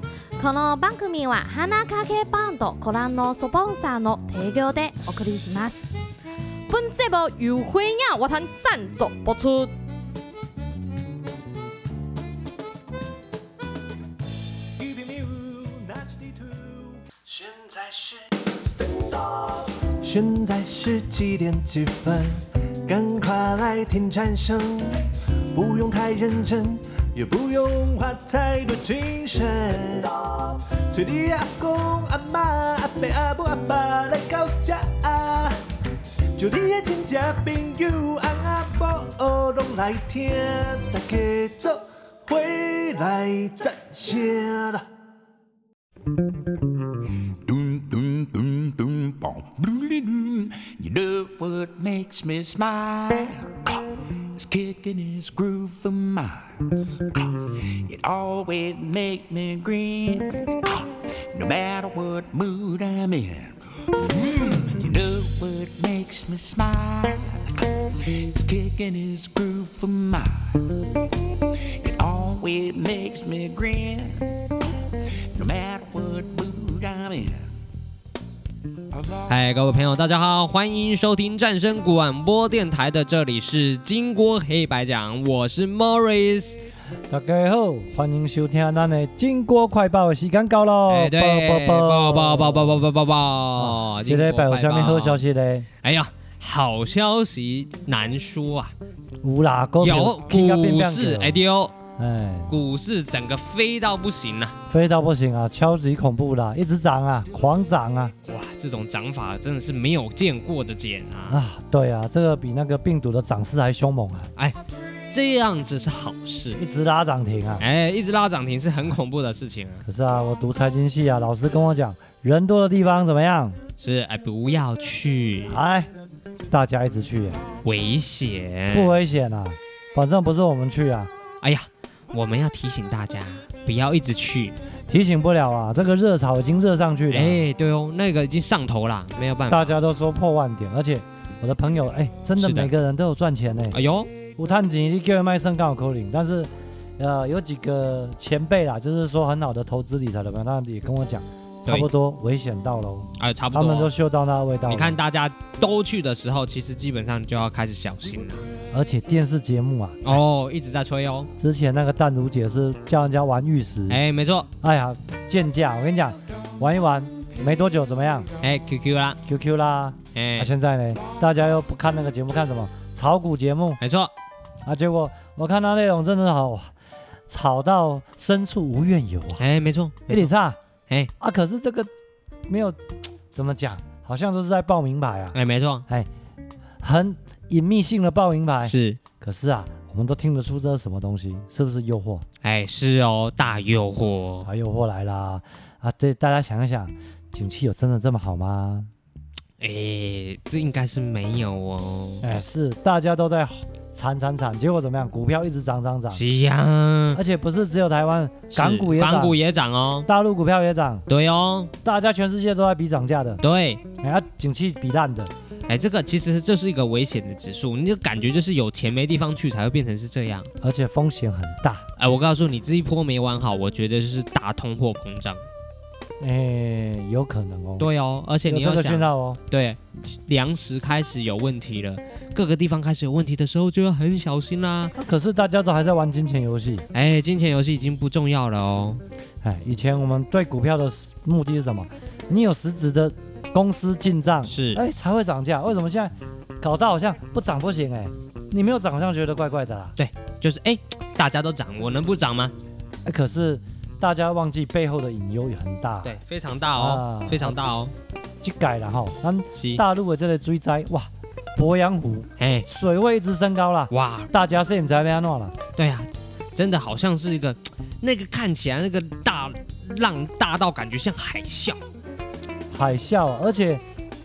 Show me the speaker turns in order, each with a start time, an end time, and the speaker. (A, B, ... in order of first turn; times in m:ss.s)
0:00.4-0:05.8 A
0:06.7-0:09.7 A
0:14.8-0:35.6 B
0:36.4-0:44.9 B
0:47.4-1:10.7 C
1:11.6-1:14.5 C
1:15.3-1:17.5 C
1:19.3-1:26.6 D
1:27.1-1:32.9 E
1:30.9-1:35.2 D
1:33.6-1:35.7 E
1:35.8-1:38.7 D
1:39.2-1:41.4 E
1:39.8-1:41.7 D
1:42.0-1:42.5 E
1:42.5-1:44.5 D
1:44.7-1:48.1 E
1:48.2-1:51.4 D
1:51.3-1:54.3 E
1:55.1-1:56.6 D
1:56.6-1:57.6 E
1:57.6-1:59.8 D
1:59.8-2:03.6 E
2:03.8-2:05.6 D
2:05.5-2:05.9 E
2:06.5-2:07.4 E
2:07.6-2:09.0 D
2:08.7-2:11.1 E
2:11.4-2:14.6 D
2:14.9-2:17.4 E
2:17.1-2:19.7 D
2:19.5-2:23.8 E
2:22.4-2:22.7 D
2:23.7-2:24.1 D
2:24.4-2:35.0 E
2:33.2-2:33.9 D
2:34.7-2:38.4 D
2:38.7-2:40.2 E
2:40.0-2:41.3 D
2:41.4-2:44.0 E
2:43.9-2:44.5 D
2:44.6-2:48.3 E
2:48.4-2:49.2 D
2:49.2-2:53.8 E
2:50.1-2:50.5 D
2:53.8-2:54.1 D
2:54.6-2:56.7 E
2:57.3-2:59.4 E
2:59.4-3:00.3 D
3:00.1-3:00.6 E
3:01.2-3:01.9 E
3:02.5-3:02.8 E
3:03.3-3:05.4 E
3:05.3-3:05.8 D
3:06.8-3:12.2 E
3:08.6-3:09.0 D
3:12.4-3:14.5 D
3:14.4-3:18.9 E
3:19.6-3:22.4 D
3:22.2-3:26.2 E
3:26.1-3:27.2 D
3:27.1-3:29.4 E
3:28.5-3:30.1 D
3:30.0-3:31.0 E
3:31.1-3:31.7 D
3:31.8-3:33.4 E
3:33.4-3:33.8 D
3:34.0-3:35.3 E
3:35.7-3:40.5 D
3:40.6-3:41.8 E
3:42.0-3:45.4 D
3:46.2-3:47.9 E
3:47.8-3:54.9 D
3:48.4-3:49.4 E
3:55.0-3:56.8 E
3:56.9-3:59.0 D
3:59.4-4:10.0 E
4:04.4-4:04.8 D
4:10.0-4:12.5 D
4:13.0-4:16.2 E
4:16.0-4:17.9 D
4:16.8-4:17.6 E
4:18.4-4:25.5 E
4:19.5-4:19.8 D
4:22.4-4:22.7 D
4:23.9-4:24.3 D
4:25.7-4:31.8 D
4:32.7-4:33.8 E